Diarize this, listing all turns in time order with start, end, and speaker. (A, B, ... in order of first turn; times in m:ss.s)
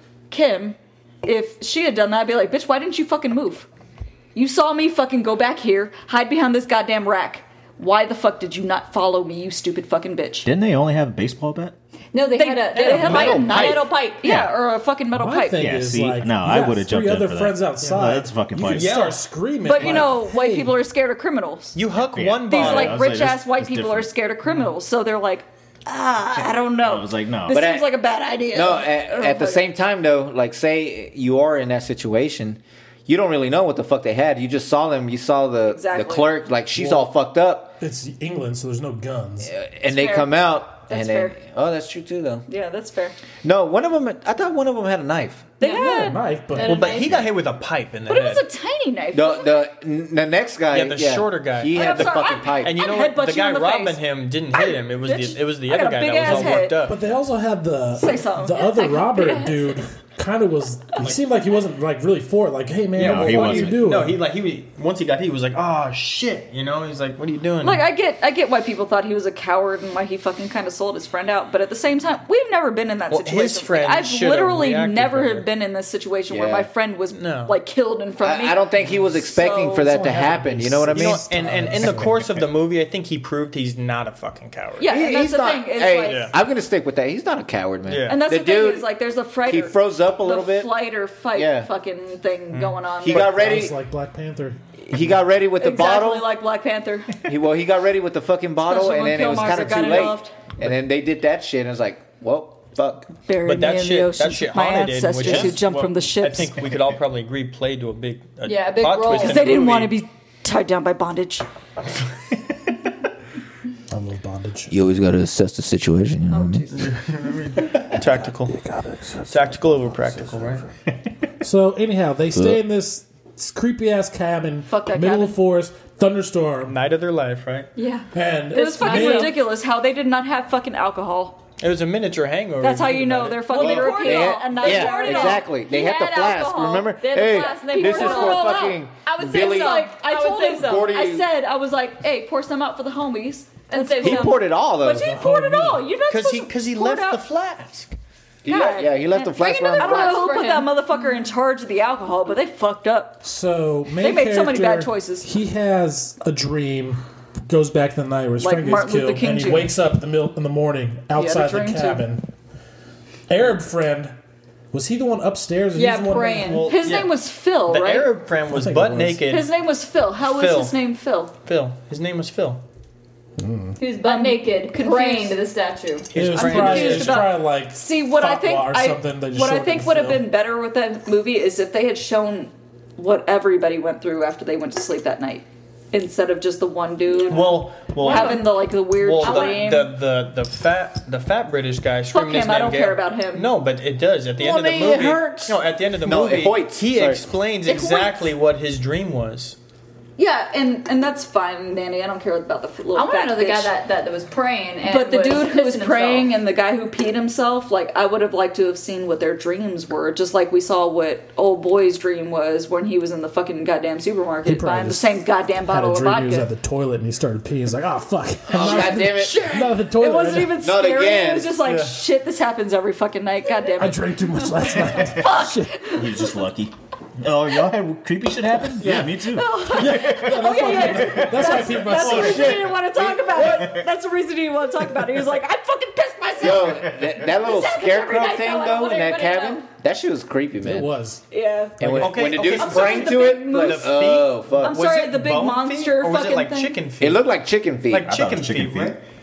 0:00.3-0:03.7 A
0:04.3-0:10.5 A
0:10.4-0:11.7 B
0:12.1-0:14.3 C
0:12.3-0:15.7 A
0:12.7-0:13.5 D
0:13.0-0:13.9 E
0:14.2-0:14.6 B
0:15.1-0:20.7 F
0:15.6-0:19.0 B
0:18.7-0:19.2 D
0:19.6-0:21.8 A
0:19.8-0:20.0 D
0:21.8-0:23.0 D
0:21.9-0:24.1 B
0:22.5-0:29.6 A
0:26.8-0:27.7 B
0:27.5-0:27.9 E
0:28.5-0:37.7 E
0:35.7-0:36.3 A
0:36.8-0:37.1 F
0:37.8-0:39.5 F
0:39.4-0:42.4 E
0:39.9-0:41.4 A
0:42.5-0:43.2 A
0:43.4-0:45.5 E
0:45.6-0:46.2 A
0:45.6-0:47.0 F
0:45.6-0:47.3 C
0:46.6-0:48.4 D
0:48.1-0:49.6 A
0:49.1-0:52.8 E
0:50.7-0:57.0 D
0:51.7-0:54.0 A
0:54.5-0:56.8 A
0:56.2-1:04.2 F
0:58.0-0:59.6 A
1:03.0-1:07.8 D
1:03.0-1:03.8 B
1:07.6-1:18.6 A
1:13.1-1:15.4 D
1:16.3-1:16.7 E
1:17.1-1:17.5 D
1:18.2-1:21.6 E
1:19.2-1:20.0 A
1:19.8-1:22.3 F
1:20.9-1:24.9 D
1:24.8-1:26.3 A
1:24.8-1:28.9 E
1:26.0-1:26.3 D
1:27.9-1:28.2 D
1:28.1-1:33.3 A
1:29.4-1:30.7 E
1:31.3-1:31.7 E
1:33.0-1:33.7 E
1:33.1-1:34.6 F
1:34.9-1:36.3 E
1:35.6-1:37.2 A
1:37.2-1:43.1 E
1:38.6-1:40.3 A
1:43.3-1:46.6 A
1:43.4-1:49.9 D
1:48.4-1:49.7 C
1:49.1-1:51.4 A
1:53.9-1:54.7 F
1:54.7-1:56.6 E
1:56.3-1:56.9 A
1:56.7-1:58.5 D
1:58.5-1:59.6 F
1:59.3-2:00.6 D
2:01.4-2:06.8 F
2:04.7-2:05.3 C
2:06.6-2:07.7 D
2:07.8-2:09.4 C
2:08.1-2:09.4 F
2:08.5-2:11.4 A
2:11.6-2:14.1 D
2:12.6-2:15.5 A
2:13.5-2:21.0 C
2:13.6-2:19.9 E
2:17.3-2:27.2 A
2:20.5-2:21.2 E
2:23.7-2:24.4 C
2:24.0-2:25.1 E
2:24.9-2:25.9 F
2:26.1-2:27.9 D
2:28.4-2:30.2 E
2:28.5-2:33.2 A
2:29.4-2:31.0 C
2:33.2-2:42.2 F
2:34.0-2:35.3 A
2:38.4-2:39.7 A
2:41.1-2:42.0 A
2:43.3-2:44.2 F
2:44.7-2:46.7 F
2:45.7-2:46.7 C
2:46.5-2:49.5 D
2:46.6-2:48.1 A
2:48.5-2:49.2 F
2:49.3-2:51.3 A
2:50.2-2:50.8 D
2:51.4-2:52.6 D
2:53.4-2:53.8 F
2:53.8-2:56.1 C
2:54.0-2:55.4 A
2:56.1-2:57.3 D
2:56.1-3:00.2 F
2:56.3-3:09.9 A
3:07.1-3:07.4 C
3:07.3-3:19.6 D
3:08.0-3:08.4 C
3:09.2-3:09.7 C
3:12.1-3:13.5 A
3:14.4-3:17.2 E
3:17.7-3:18.2 A
3:20.2-3:23.7 A
3:22.9-3:26.3 C
3:24.8-3:36.5 A
3:34.4-3:40.6 F
3:38.5-3:39.6 E
3:39.3-3:46.3 A
3:40.5-3:41.6 E
3:41.6-3:42.0 D
3:43.8-3:45.8 F
3:45.9-3:52.8 B
3:48.8-3:49.1 E
3:49.2-3:58.9 A
3:49.7-3:52.6 D
3:49.8-3:52.5 F
3:52.0-3:53.8 E
3:53.4-3:53.8 B
3:56.4-4:00.9 E
3:57.8-3:59.6 C
4:00.6-4:01.2 F
4:01.3-4:03.9 A
4:01.8-4:02.1 F
4:01.8-4:04.8 E
4:01.9-4:07.2 D
4:04.6-4:06.8 A
4:07.0-4:08.1 E
4:07.9-4:09.0 D
4:08.0-4:09.0 B